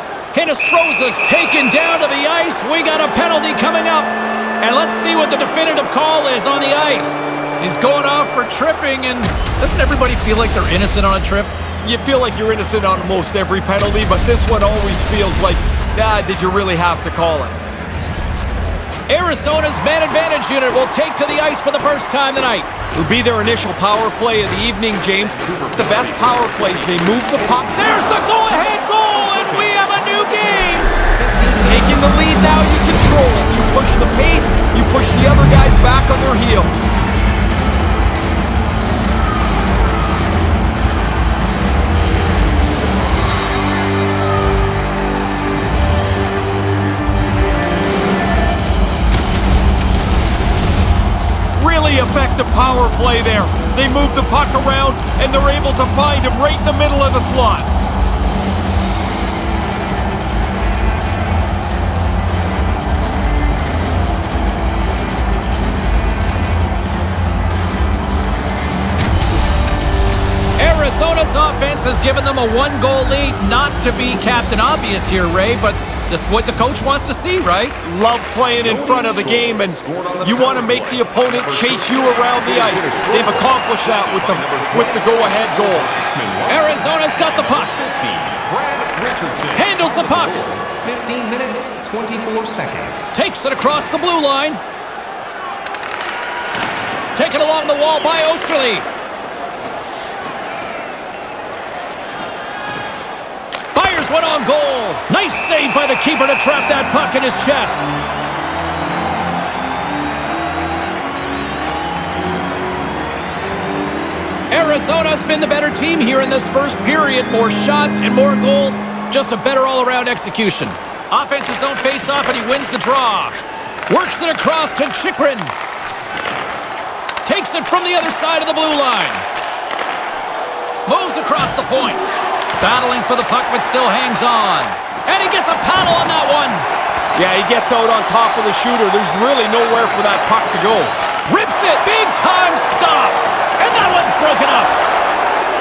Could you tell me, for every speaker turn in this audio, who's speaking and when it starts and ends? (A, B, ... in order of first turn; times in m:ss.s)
0:00.3-0:11.5 A
0:11.8-0:17.6 B
0:19.1-0:22.7 A
0:22.9-0:27.8 B
0:25.2-0:27.8 C
0:27.7-0:30.9 A
0:28.9-0:29.8 C
0:31.2-0:31.7 C
0:31.6-0:36.7 B
0:51.6-0:57.7 B
1:10.6-1:17.8 A
1:17.8-1:25.9 B
1:18.6-1:33.1 C
1:26.5-1:27.8 A
1:29.5-1:30.4 A
1:33.1-1:34.6 A
1:37.1-1:38.9 A
1:43.7-1:47.8 A
1:54.5-2:05.5 A
2:07.2-2:09.2 A
2:10.8-2:12.1 A
2:12.6-2:16.7 A
2:17.1-2:20.9 B
2:21.3-2:24.8 A